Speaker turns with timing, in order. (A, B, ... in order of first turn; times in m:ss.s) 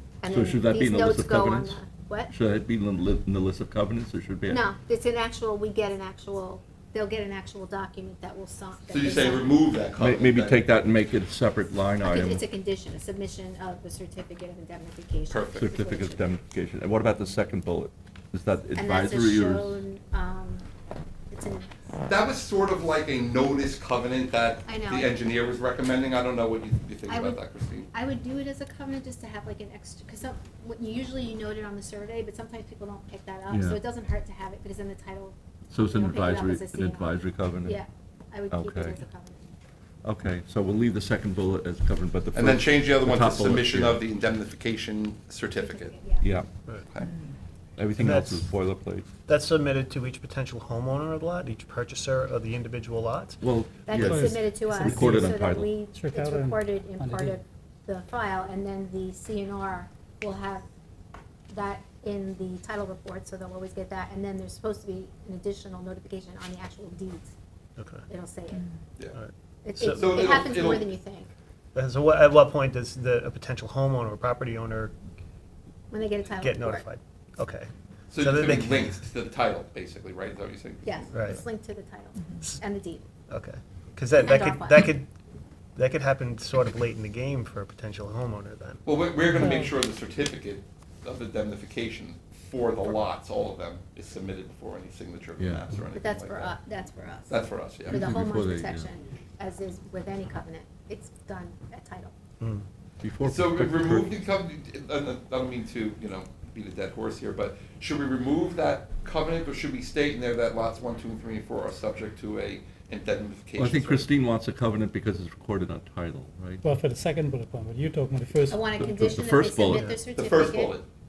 0:00.2-0:02.3 A
0:00.2-0:04.6 B
0:04.5-0:09.6 A
0:08.9-0:10.6 C
0:10.0-0:12.4 B
0:12.0-0:16.3 A
0:15.3-0:15.6 C
0:15.6-0:19.8 B
0:18.7-0:20.7 A
0:21.3-0:21.8 A
0:22.0-0:27.9 C
0:24.6-0:25.1 A
0:27.0-0:39.5 A
0:33.5-0:33.8 B
0:35.7-0:37.8 B
0:38.5-0:39.0 B
0:40.0-0:44.0 B
0:42.3-0:45.9 C
0:45.5-0:46.3 A
0:46.2-0:46.5 B
0:46.8-0:47.1 C
0:47.8-0:49.1 B
0:48.0-0:48.5 D
0:49.2-0:53.4 D
0:53.4-0:55.8 B
0:53.8-1:00.7 A
0:53.9-0:55.4 E
0:55.9-0:57.4 E
1:01.5-1:07.3 A
1:07.8-1:08.0 D
1:08.1-1:08.7 A
1:09.1-1:10.5 D
1:09.6-1:11.3 A
1:09.8-1:10.9 C
1:11.7-1:14.9 D
1:15.9-1:16.9 A
1:16.3-1:19.0 D
1:18.1-1:21.1 C
1:20.8-1:23.1 A
1:21.1-1:21.4 D
1:23.3-1:25.1 D
1:24.1-1:24.9 A
1:25.8-1:28.8 D
1:28.8-1:36.5 C
1:29.4-1:29.7 E
1:35.4-1:35.6 B
1:35.9-1:42.1 A
1:37.3-1:38.0 C
1:37.9-1:38.9 B
1:42.4-1:42.6 D
1:43.0-1:44.1 B
1:43.2-1:54.0 C
1:53.6-1:56.6 B
1:56.6-1:59.0 E
1:58.5-2:00.8 A
1:58.8-2:00.0 B
1:59.6-2:00.0 D
2:00.1-2:00.8 C